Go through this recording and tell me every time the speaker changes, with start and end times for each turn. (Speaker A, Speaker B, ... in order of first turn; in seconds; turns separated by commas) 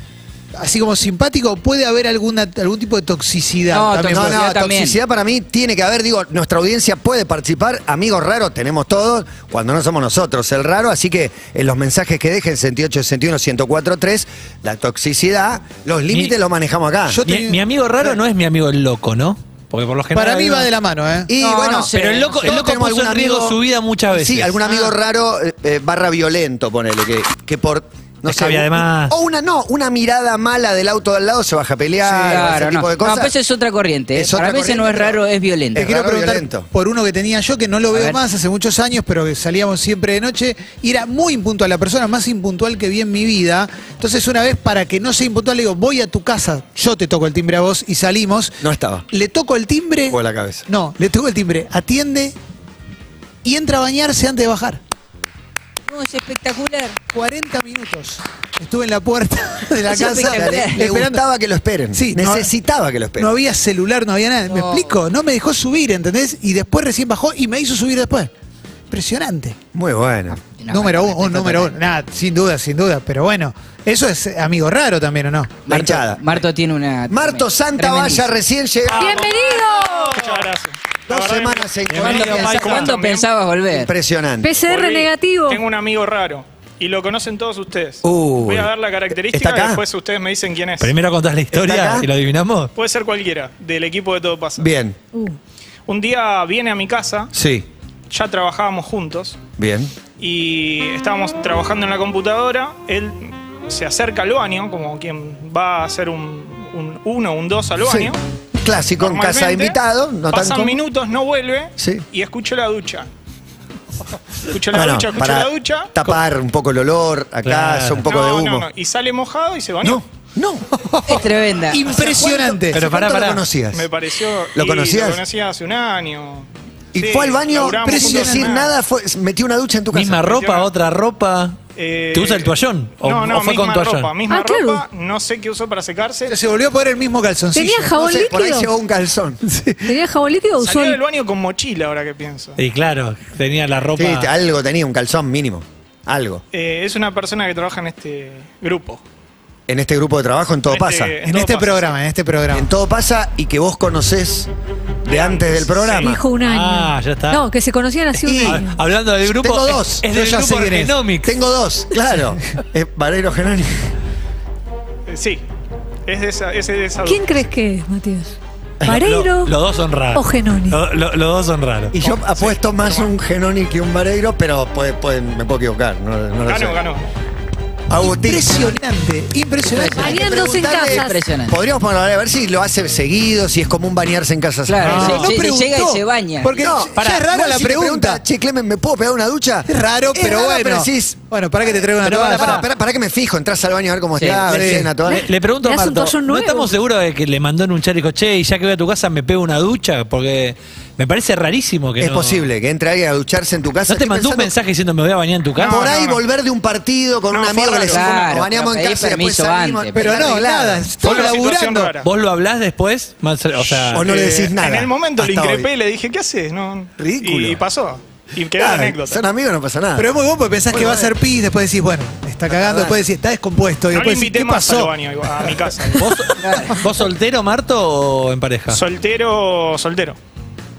Speaker A: 0.6-4.4, Speaker B: 3.7-5.0, Speaker C: 4.1-17.2, Speaker A: 17.1-18.1, Speaker D: 17.3-20.7, Speaker A: 20.1-21.3, Speaker C: 21.3-23.6, Speaker B: 21.4-22.4, Speaker D: 21.9-24.7, Speaker C: 24.1-33.3, Speaker D: 28.3-29.1, Speaker A: 32.0-32.6, Speaker B: 32.3-35.9, Speaker C: 34.1-35.2, Speaker C: 35.8-36.7, Speaker A: 35.8-52.4, Speaker B: 37.9-38.2, Speaker C: 48.6-49.1, Speaker C: 50.1-50.7, Speaker A: 53.4-54.8, Speaker B: 55.9-57.0, Speaker A: 57.1-61.2, Speaker B: 59.9-60.8, Speaker C: 59.9-63.3, Speaker A: 61.9-62.5, Speaker A: 63.2-68.3, Speaker B: 64.5-65.0, Speaker A: 68.9-69.6, Speaker C: 69.7-70.4, Speaker B: 70.3-71.8, Speaker A: 70.7-75.7, Speaker B: 75.7-78.3, Speaker C: 75.7-76.2, Speaker C: 77.1-79.3, Speaker E: 79.0-80.4, Speaker F: 79.3-83.3, Speaker C: 81.1-83.0, Speaker D: 81.9-82.9, Speaker B: 82.0-83.9, Speaker C: 83.7-84.6, Speaker E: 84.4-85.7, Speaker F: 84.7-90.9, Speaker C: 88.0-89.8, Speaker D: 90.8-92.7, Speaker C: 91.5-92.1, Speaker F: 92.8-94.7, Speaker C: 94.6-95.0, Speaker F: 95.9-97.3, Speaker C: 97.3-97.7, Speaker F: 98.1-99.4, Speaker C: 99.6-99.9, Speaker F: 100.2-108.2, Speaker C: 107.8-110.8, Speaker F: 109.0-113.1, Speaker C: 111.8-112.0, Speaker F: 114.5-115.9, Speaker C: 114.7-118.7, Speaker D: 117.4-118.1, Speaker F: 118.1-120.0, Speaker C: 119.8-120.7, Speaker A: 120.7-122.8, Speaker B: 121.1-122.1, Speaker D: 122.7-123.4, Speaker C: 122.7-123.9, Speaker F: 123.7-128.7, Speaker C: 124.5-125.2, Speaker C: 126.9-130.3, Speaker A: 127.6-128.5, Speaker D: 129.9-131.6, Speaker F: 130.3-130.7, Speaker F: 131.8-136.3, Speaker D: 132.1-134.1, Speaker E: 134.3-134.8, Speaker A: 136.3-137.9, Speaker E: 137.5-138.7, Speaker C: 137.9-139.4, Speaker A: 139.4-139.9, Speaker E: 139.9-141.0, Speaker F: 140.6-142.6, Speaker D: 142.6-144.3, Speaker C: 144.0-146.4, Speaker F: 146.5-149.0, Speaker C: 149.7-151.2, Speaker F: 150.7-151.9, Speaker A: 151.2-152.7, Speaker C: 152.5-154.5, Speaker C: 155.0-156.2, Speaker F: 155.1-156.1, Speaker E: 155.9-158.8, Speaker D: 156.4-157.4, Speaker D: 158.2-161.3, Speaker C: 159.3-160.1, Speaker A: 160.1-161.0, Speaker C: 161.2-163.9, Speaker F: 165.1-165.4, Speaker F: 166.1-167.3, Speaker E: 167.0-169.6, Speaker D: 168.8-171.9, Speaker E: 170.1-170.8, Speaker C: 171.9-176.8, Speaker F: 172.0-173.1, Speaker F: 176.5-177.1, Speaker C: 177.9-178.6, Speaker A: 178.0-180.1, Speaker B: 179.7-181.6, Speaker C: 180.0-185.2, Speaker E: 180.0-181.2, Speaker B: 184.7-186.6, Speaker A: 184.8-188.2, Speaker D: 184.9-185.3, Speaker C: 186.6-195.3, Speaker D: 187.0-187.2, Speaker A: 189.7-192.6, Speaker D: 192.2-192.6, Speaker B: 194.2-194.5, Speaker A: 194.5-195.0, Speaker D: 195.0-202.5, Speaker E: 195.1-196.8, Speaker C: 202.0-204.5, Speaker D: 203.9-205.9, Speaker F: 205.6-206.2, Speaker C: 205.7-211.4, Speaker F: 207.3-208.2, Speaker B: 207.8-210.3, Speaker A: 209.9-211.9, Speaker F: 211.0-212.1, Speaker D: 212.0-214.1, Speaker F: 213.7-219.2, Speaker C: 213.9-215.7, Speaker C: 217.0-217.6, Speaker C: 218.6-220.1, Speaker A: 220.0-225.7, Speaker C: 220.7-221.2, Speaker C: 222.5-223.0, Speaker F: 223.9-226.3, Speaker D: 226.0-228.8, Speaker F: 228.7-230.2